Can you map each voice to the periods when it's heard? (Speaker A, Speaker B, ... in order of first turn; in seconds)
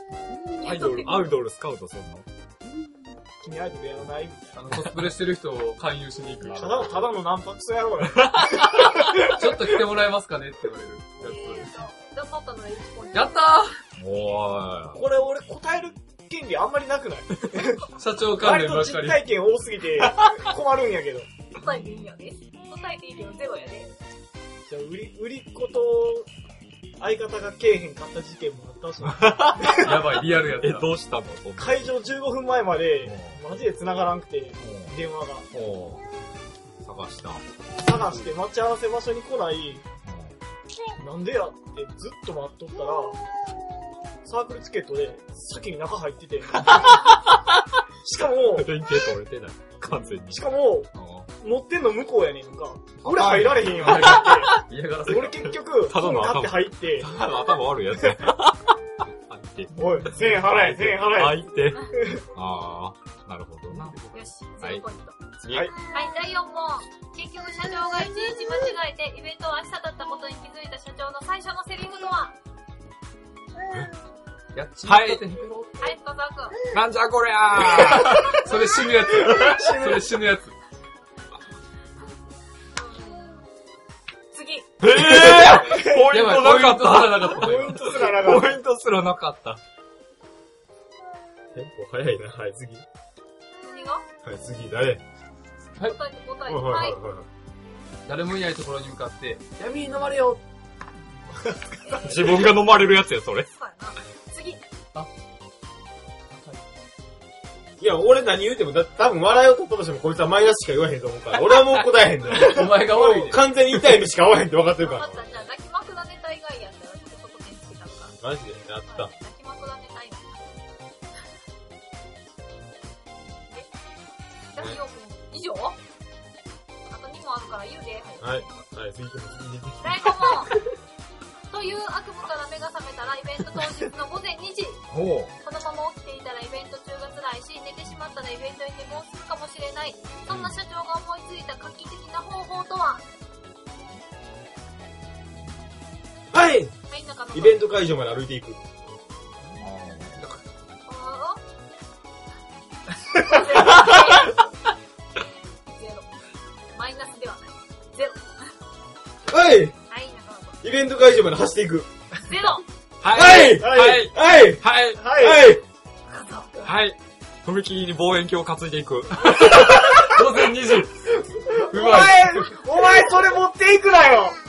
Speaker A: 0.6-1.2, 11.2-13.6, 21.5-23.9, 64.1-65.2, 65.8-72.3, 75.8-76.6, 82.7-83.5, 84.3-84.7, 93.6-94.0, 95.8-97.0, 101.8-102.5, 103.5-104.6, 114.8-118.2, 118.8-120.5, 124.5-125.8, 126.9-128.5, 129.8-130.6, 131.5-134.8, 135.4-143.0, 146.9-147.6, 150.8-151.4, 153.1-154.5, 155.2-156.1, 156.7-158.6, 159.9-160.6, 162.2-162.6, 166.1-166.7
Speaker B: 0.6-2.2, 6.4-7.0, 13.9-15.0, 29.0-32.1, 33.0-33.6, 34.6-35.0, 35.5-36.0, 36.8-37.5, 40.0-40.4, 46.6-47.5, 48.5-51.3, 53.0-64.0, 64.6-64.8, 65.4-65.8, 74.8-75.2, 76.7-78.4, 84.8-89.6, 102.0-103.5, 134.9-135.3, 140.3-140.6, 149.6-150.3, 163.0-165.1, 166.6-170.2
Speaker C: 3.4-4.6, 6.5-9.4, 14.9-21.3, 24.6-26.3, 27.0-30.0, 31.6-35.5, 37.8-39.8, 41.0-43.2, 44.2-47.2, 48.0-48.7, 50.3-57.2, 59.7-62.2, 65.5-65.7, 79.2-80.1, 85.5-86.0, 87.3-88.5, 99.6-100.4, 163.5-164.1, 164.9-165.5, 171.5-174.4
Speaker D: 4.5-6.9, 9.0-11.7, 13.1-13.7, 17.9-19.3, 29.6-30.9, 53.2-55.4, 63.7-64.2, 74.5-75.9, 77.7-80.5, 85.9-87.9, 98.0-99.5, 106.3-106.6, 112.3-113.4, 169.3-172.6
Speaker E: 91.5-92.8, 94.2-95.0, 96.5-97.2, 99.6-100.2, 107.8-115.2, 118.2-119.1, 128.2-130.4, 146.3-146.8, 147.3-148.6, 159.3-159.8, 160.6-161.9, 163.1-165.6